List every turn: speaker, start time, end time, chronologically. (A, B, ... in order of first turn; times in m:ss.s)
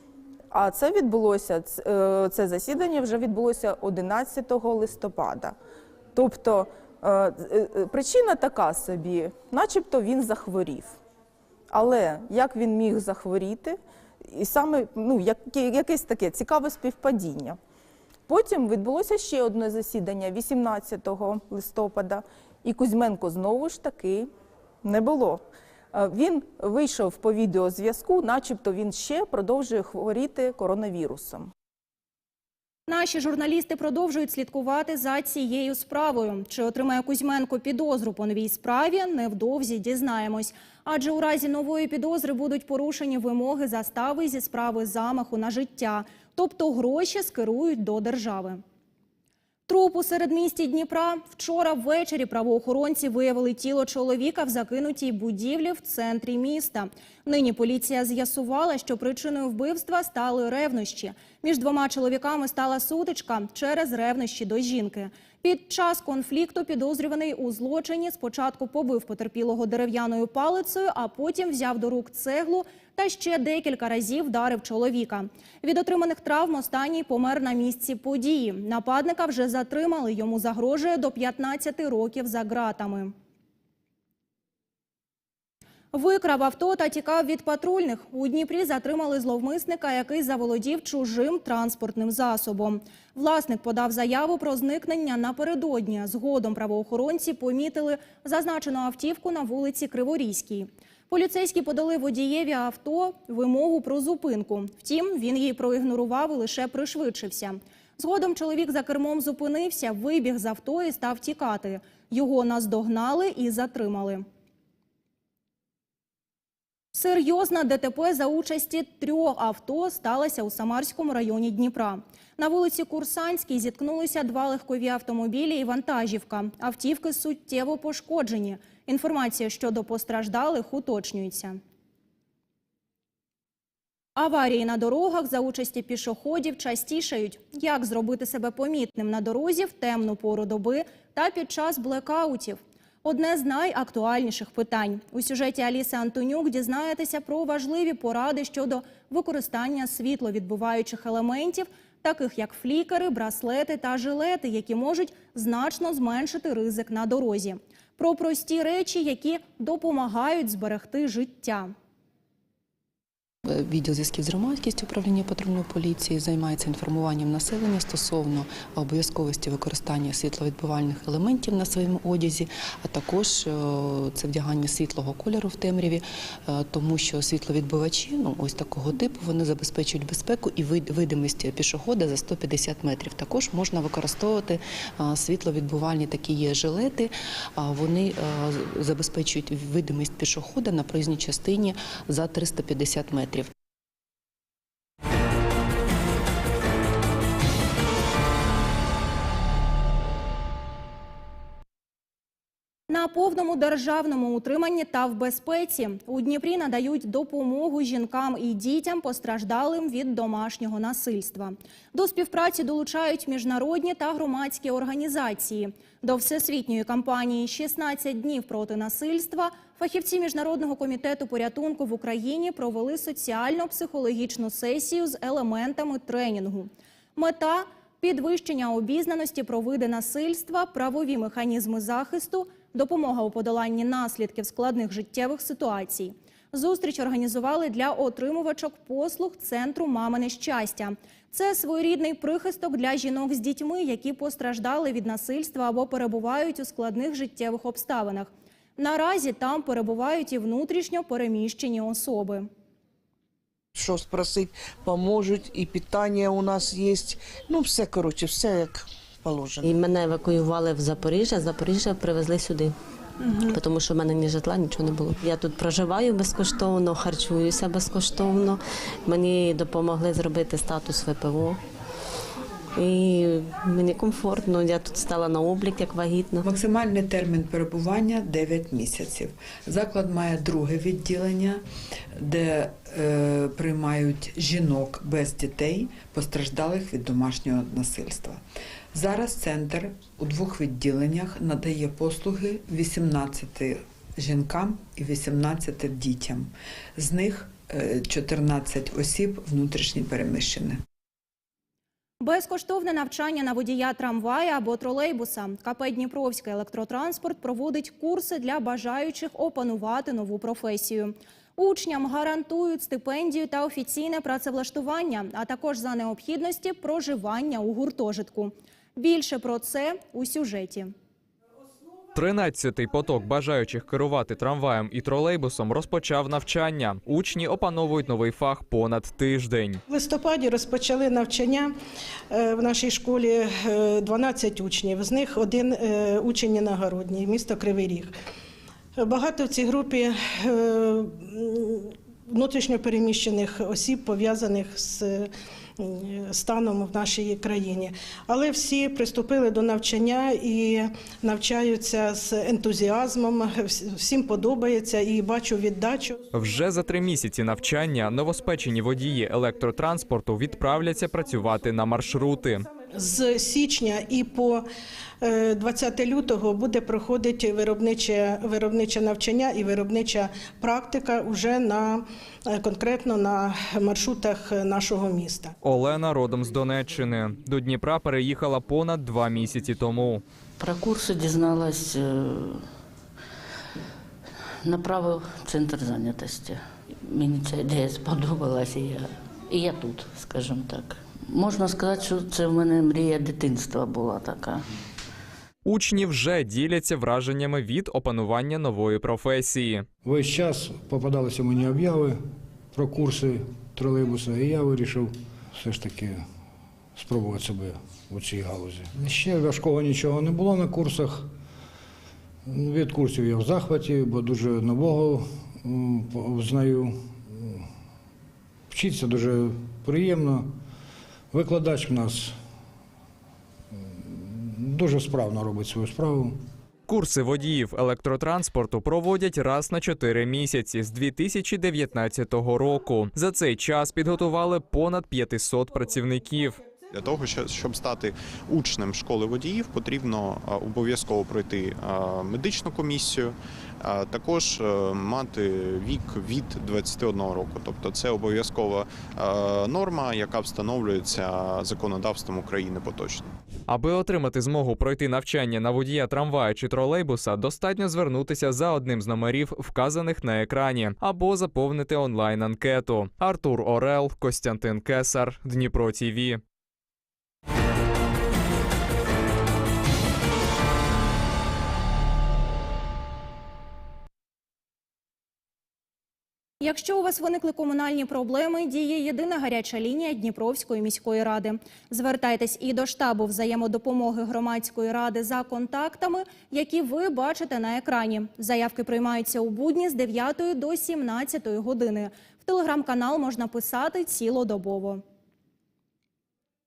0:00.5-0:05.5 A
0:06.2-0:11.0 A
0:11.7-0:13.8 A
0:14.3-0:17.6 A
0:18.3-0:24.3 A
0:24.8-0:25.4 A
0:25.9-0:31.5 A
0:32.9-0:48.6 B
0:49.7-1:23.1 B
1:25.9-1:54.2 B
1:56.9-2:11.6 B
2:14.2-2:41.7 B
2:43.8-2:46.0 C
2:46.6-2:47.3 C
2:48.1-2:49.7 C
2:59.5-3:00.1 C
3:01.4-3:02.2 C
3:03.7-3:04.5 C
3:06.2-3:07.0 C
3:09.3-3:10.0 C
3:10.5-3:12.4 C
3:22.9-4:12.5 B
4:13.8-4:19.7 D
4:19.6-4:22.7 E
4:23.4-4:31.6 E
4:32.8-4:36.5 E
4:36.4-4:41.6 F
4:42.2-4:48.4 F
4:48.9-5:00.8 F
5:02.2-5:20.9 B
5:22.2-5:29.8 G
5:29.9-5:31.7 H
5:32.3-5:38.1 H
5:39.0-5:56.2 H
5:56.3-6:02.6 G
6:02.9-6:04.6 H
6:05.2-6:15.5 H
6:15.6-6:20.2 G
6:20.6-6:22.0 I
6:24.6-6:26.6 I
6:27.1-6:34.6 I
6:35.6-6:39.8 G
6:40.0-6:42.2 J
6:42.7-6:46.2 J
6:47.0-6:51.3 J
6:52.5-6:57.6 J
6:58.7-7:00.5 J
7:01.3-7:02.3 J
7:03.9-7:06.3 J
7:06.9-7:16.6 G
7:16.9-7:33.2 K
7:33.7-7:46.4 G
7:56.6-8:15.0 B